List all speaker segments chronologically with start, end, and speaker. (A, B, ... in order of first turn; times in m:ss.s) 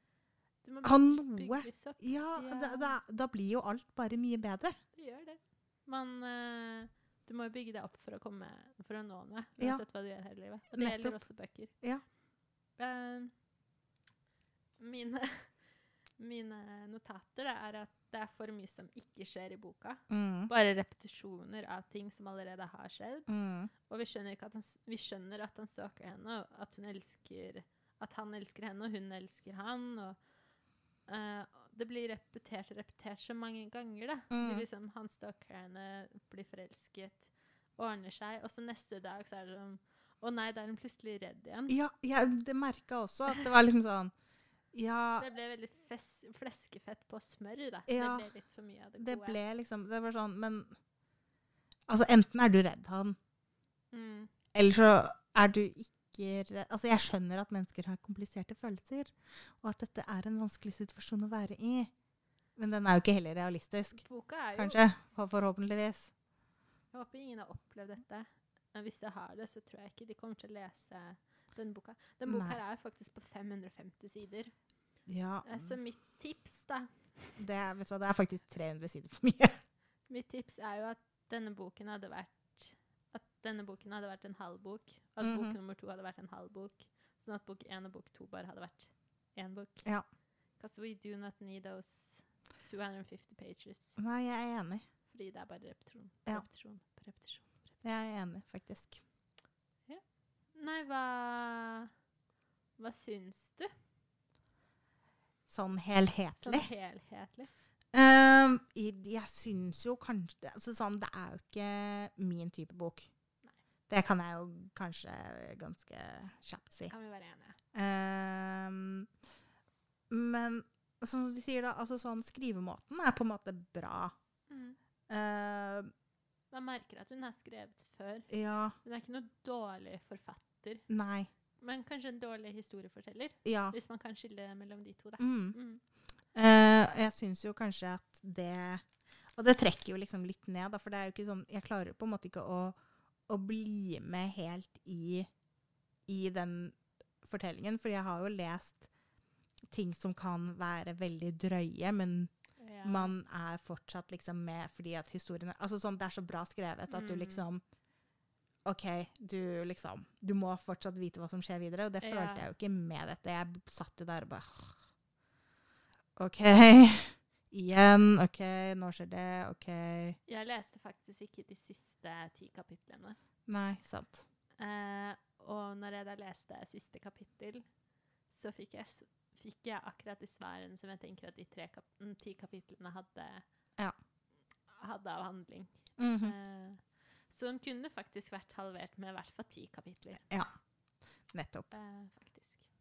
0:00.6-0:03.0 A
0:00.8-0:04.8 B
0:04.9-0:11.7 A
0:10.7-0:11.2 B
0:12.8-0:13.3 A
0:14.8-0:15.5 A
0:16.2-0:23.3 A
0:20.1-0:20.5 B
0:23.3-0:23.7 B
0:23.9-0:30.2 A
0:31.1-0:41.8 A
0:34.3-0:34.6 B
0:41.7-0:44.1 B
0:44.7-0:45.2 B
0:45.2-0:49.4 A
0:47.9-0:48.2 B
0:49.0-0:50.7 B
0:51.9-0:53.2 B
0:53.9-0:54.3 A
0:54.5-1:01.9 B
1:02.6-1:04.0 B
1:04.0-1:04.8 A
1:04.6-1:06.1 B
1:06.9-1:14.5 A
1:12.3-1:12.6 B
1:15.1-1:15.8 B
1:15.4-1:16.9 A
1:17.4-1:19.6 B
1:20.1-1:29.9 A
1:25.2-1:25.6 B
1:30.6-1:34.0 A
1:34.0-1:34.8 B
1:35.1-1:37.7 A
1:37.8-1:39.0 B
1:40.5-1:41.9 A
1:42.8-1:43.7 A
1:45.5-1:46.7 B
1:46.4-1:47.5 A
1:47.9-1:53.1 B
1:53.9-1:56.9 B
1:56.9-1:57.6 A
1:57.7-1:59.1 B
2:00.1-2:04.2 B
2:04.5-2:04.8 A
2:05.1-2:05.9 B
2:06.5-2:08.3 A
2:08.3-2:08.8 B
2:08.8-2:10.8 A
2:10.9-2:11.3 B
2:11.6-2:15.8 A
2:13.4-2:13.8 B
2:15.2-2:15.6 B
2:16.3-2:18.8 B
2:19.4-2:25.3 B
2:26.1-2:28.9 B
2:29.7-2:32.3 B
2:32.6-2:33.1 A
2:32.8-2:37.6 B
2:36.9-2:37.4 A
2:38.6-2:44.8 B
2:42.0-2:42.5 A
2:46.2-2:50.2 B
2:50.3-2:53.2 A
2:53.5-2:54.2 B
2:54.6-2:57.6 A
2:58.3-3:03.4 A
3:04.7-3:10.2 A
3:06.0-3:06.4 B
3:11.3-3:11.7 B
3:11.7-3:12.7 A